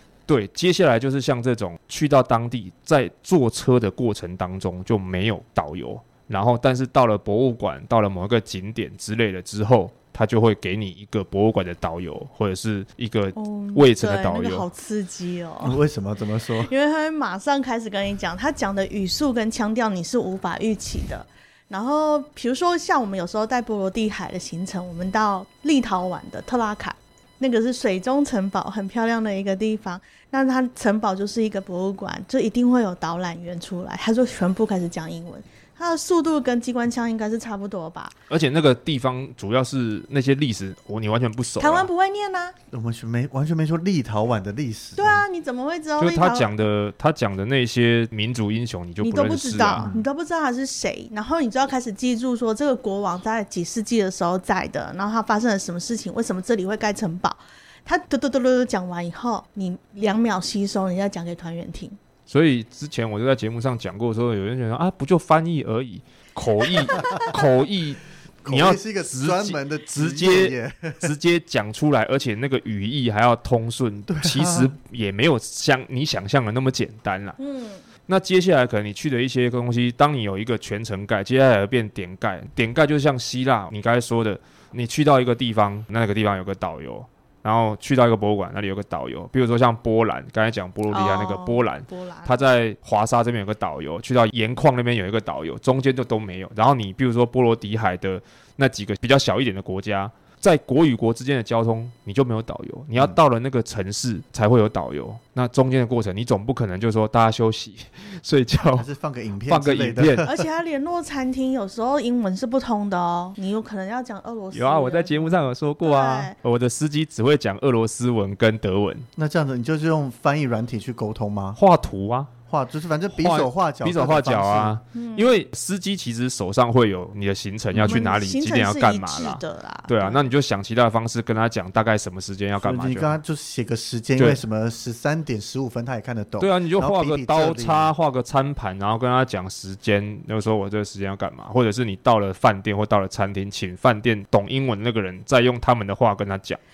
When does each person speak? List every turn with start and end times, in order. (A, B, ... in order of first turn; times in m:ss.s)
0:00.3-0:14.6 A
0:13.3-0:15.8 B
0:15.6-0:16.7 C
0:16.6-0:38.1 B
0:38.3-0:41.9 A
0:41.6-0:42.5 B
0:42.7-0:45.2 C
0:45.0-0:46.5 B
0:46.0-0:49.9 A
0:49.0-1:02.0 B
0:49.8-0:50.1 C
1:02.3-1:17.4 A
1:08.4-1:11.1 C
1:14.1-1:14.7 C
1:17.4-1:17.8 B
1:18.1-1:48.9 A
1:30.9-1:32.3 B
1:48.7-1:50.4 C
1:49.5-1:50.3 A
1:50.2-1:56.3 B
1:54.5-1:59.1 A
1:59.2-2:01.6 C
2:01.5-2:02.3 A
2:02.5-2:04.8 C
2:03.1-2:13.2 A
2:04.9-2:05.4 B
2:07.8-2:10.2 B
2:12.6-2:17.9 C
2:16.4-2:26.6 A